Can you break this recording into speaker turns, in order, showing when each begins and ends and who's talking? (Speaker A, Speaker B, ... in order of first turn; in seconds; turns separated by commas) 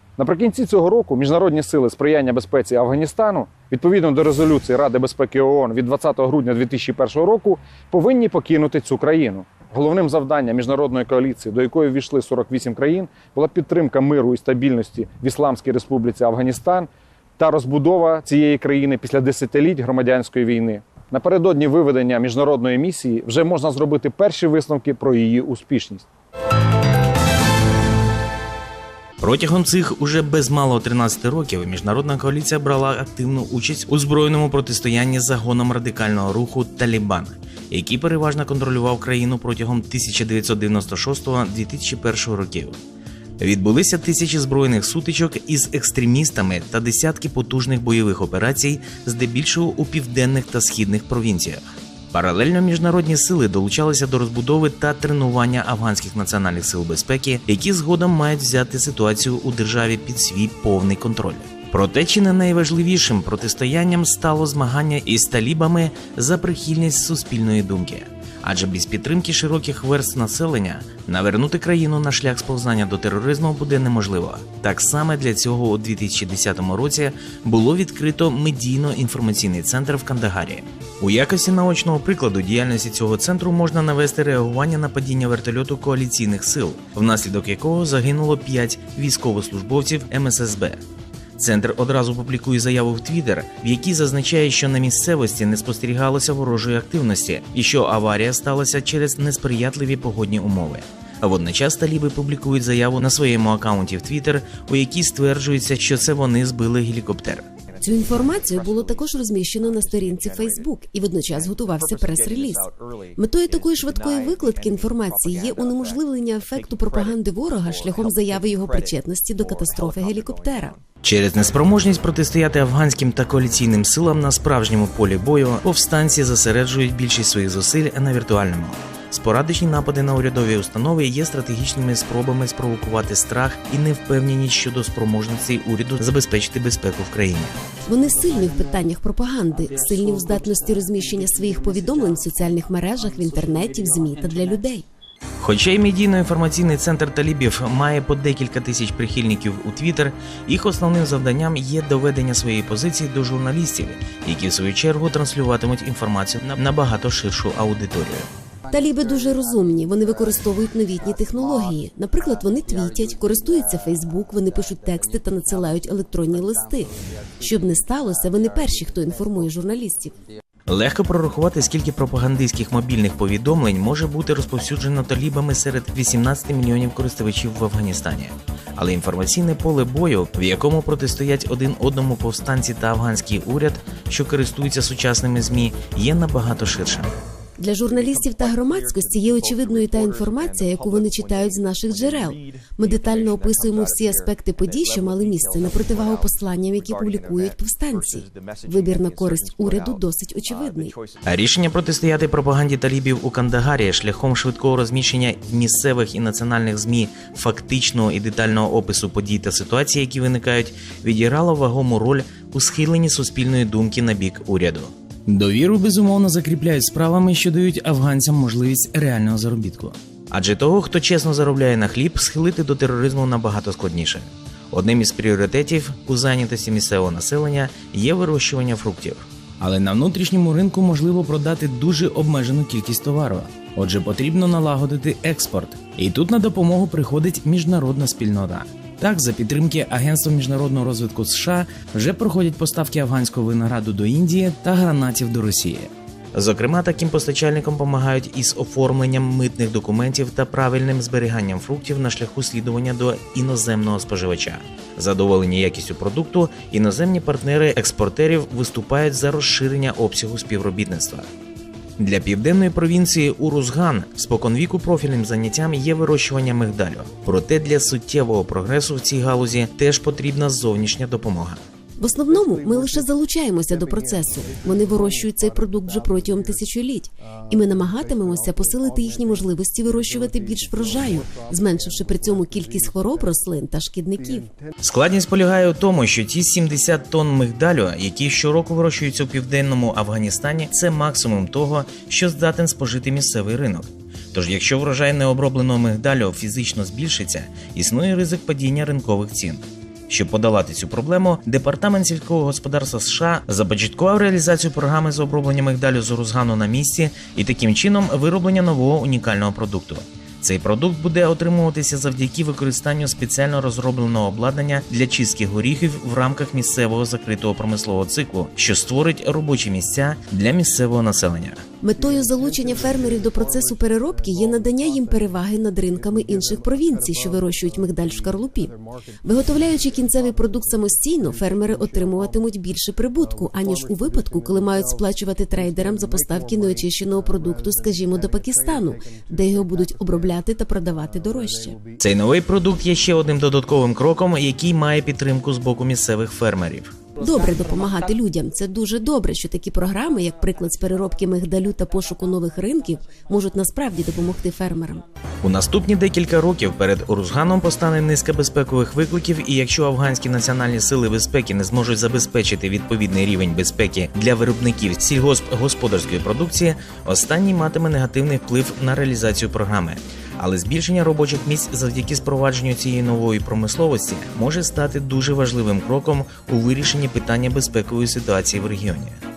Speaker A: 0.2-26.1, Speaker B: 29.2-42.8, Speaker B: 43.4-90.8, Speaker B: 91.4-107.5, Speaker C: 107.8-120.8, Speaker B: 121.0-137.5, Speaker C: 137.9-144.8, Speaker B: 145.4-158.3, Speaker C: 158.7-170.2, Speaker B: 170.7-187.1, Speaker C: 187.6-200.9, Speaker B: 201.2-261.3, Speaker B: 262.0-271.6, Speaker C: 272.0-284.5, Speaker B: 284.8-321.6, Speaker C: 321.8-341.8, Speaker B: 342.0-346.9, Speaker C: 347.2-355.0, Speaker B: 355.4-379.2